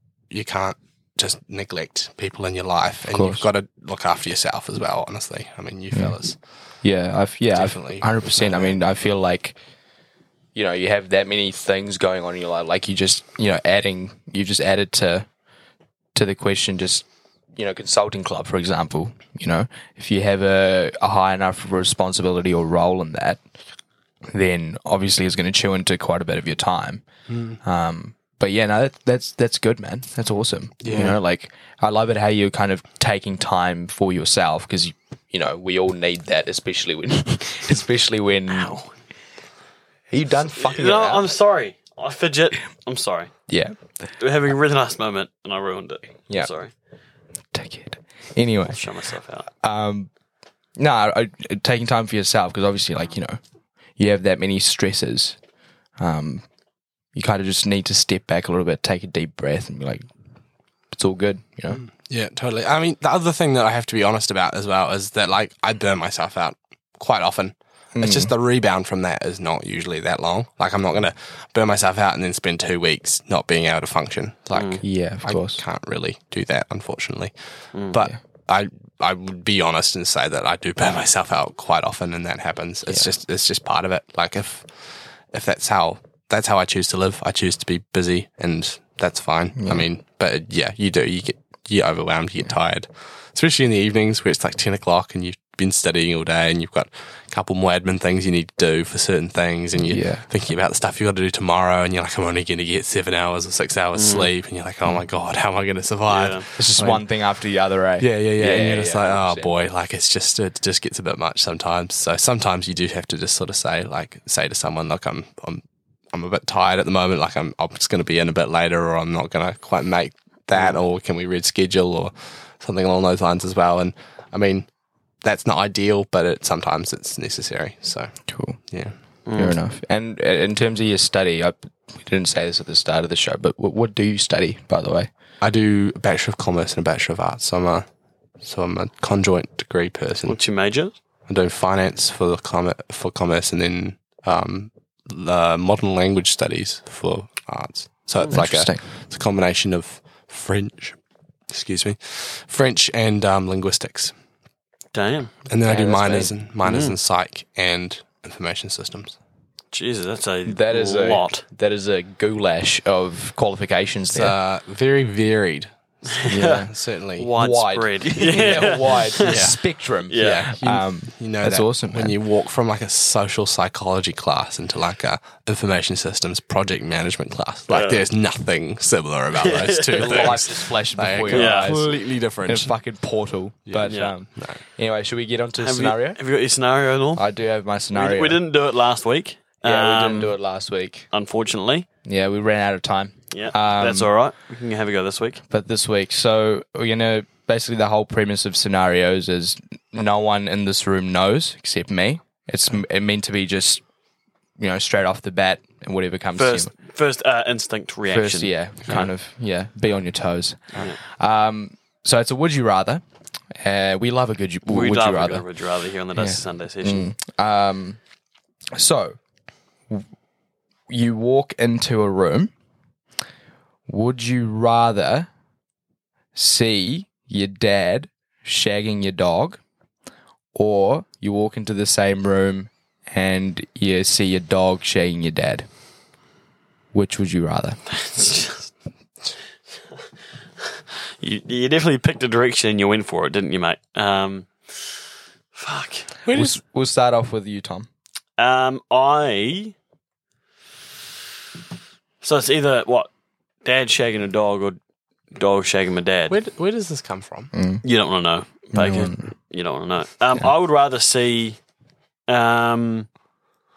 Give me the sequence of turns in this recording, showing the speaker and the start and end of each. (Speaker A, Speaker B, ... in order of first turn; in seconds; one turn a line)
Speaker A: 0.3-6.4
Speaker B: 3.1-3.5
Speaker B: 5.9-6.2
Speaker B: 6.8-9.6
Speaker A: 7.5-8.8
Speaker B: 10.6-15.3
Speaker B: 16.1-23.4
Speaker B: 24.3-27.1
Speaker A: 27.3-27.6
Speaker B: 27.6-38.8
Speaker A: 30.8-31.2
Speaker C: 38.5-38.9
Speaker B: 40.1-41.3
Speaker C: 40.6-43.3
Speaker B: 43.5-43.8
Speaker C: 44.2-46.7
Speaker B: 47.5-48.8
Speaker C: 48.7-49.5
Speaker B: 49.5-50.1
Speaker B: 50.8-53.4
Speaker B: 54.0-55.4
Speaker B: 56.0-56.5
Speaker B: 57.1-60.0
Speaker B: 60.9-61.8
Speaker A: 62.0-77.3
Speaker B: 68.0-68.3
Speaker C: 74.5-74.8
Speaker B: 74.8-75.6
Speaker A: 77.9-107.1
Speaker B: 89.6-89.8
Speaker B: 99.8-100.2
Speaker C: 103.9-104.3
Speaker C: 106.1-106.5
Speaker B: 106.6-109.5
Speaker A: 108.0-124.7
Speaker A: 125.2-128.2
Speaker B: 128.3-128.6
Speaker C: 129.3-129.6
Speaker B: 129.3-135.1
Speaker A: 135.4-137.9
Speaker A: 138.4-140.4
Speaker C: 140.3-140.9
Speaker A: 141.3-151.0
Speaker B: 148.3-148.8
Speaker A: 151.5-154.1
Speaker C: 154.9-155.3
Speaker A: 155.5-159.2
Speaker B: 155.7-156.3
Speaker C: 156.6-156.9
Speaker C: 159.7-161.4
Speaker B: 160.5-164.3
Speaker A: 164.1-167.3
Speaker C: 166.1-169.5
Speaker B: 166.3-166.7
Speaker B: 167.3-172.2
Speaker A: 169.2-182.7
Speaker C: 170.1-170.5
Speaker C: 177.7-178.0
Speaker C: 179.4-180.4
Speaker B: 179.4-186.2
Speaker C: 181.3-181.8
Speaker A: 183.7-184.6
Speaker C: 183.9-184.1
Speaker C: 185.6-187.2
Speaker B: 187.2-188.4
Speaker C: 187.9-190.3
Speaker B: 189.6-191.1
Speaker C: 191.1-191.9
Speaker B: 192.1-194.1
Speaker C: 193.3-195.4
Speaker B: 195.5-203.8
Speaker B: 204.6-206.7
Speaker C: 206.4-209.1
Speaker B: 208.1-215.4
Speaker C: 214.7-217.1
Speaker B: 216.2-218.0
Speaker B: 218.7-219.2
Speaker B: 220.9-222.5
Speaker B: 223.9-225.3
Speaker B: 226.3-229.6
Speaker B: 230.5-235.7
Speaker B: 236.9-237.8
Speaker C: 237.9-238.7
Speaker C: 241.2-245.0
Speaker C: 245.5-246.1
Speaker A: 246.2-246.6
Speaker B: 246.3-247.9
Speaker C: 248.4-249.8
Speaker C: 252.2-253.1
Speaker C: 253.7-254.8
Speaker C: 255.3-256.4
Speaker A: 256.3-257.5
Speaker B: 257.5-257.9
Speaker C: 257.8-261.6
Speaker B: 258.7-259.3
Speaker C: 262.3-263.1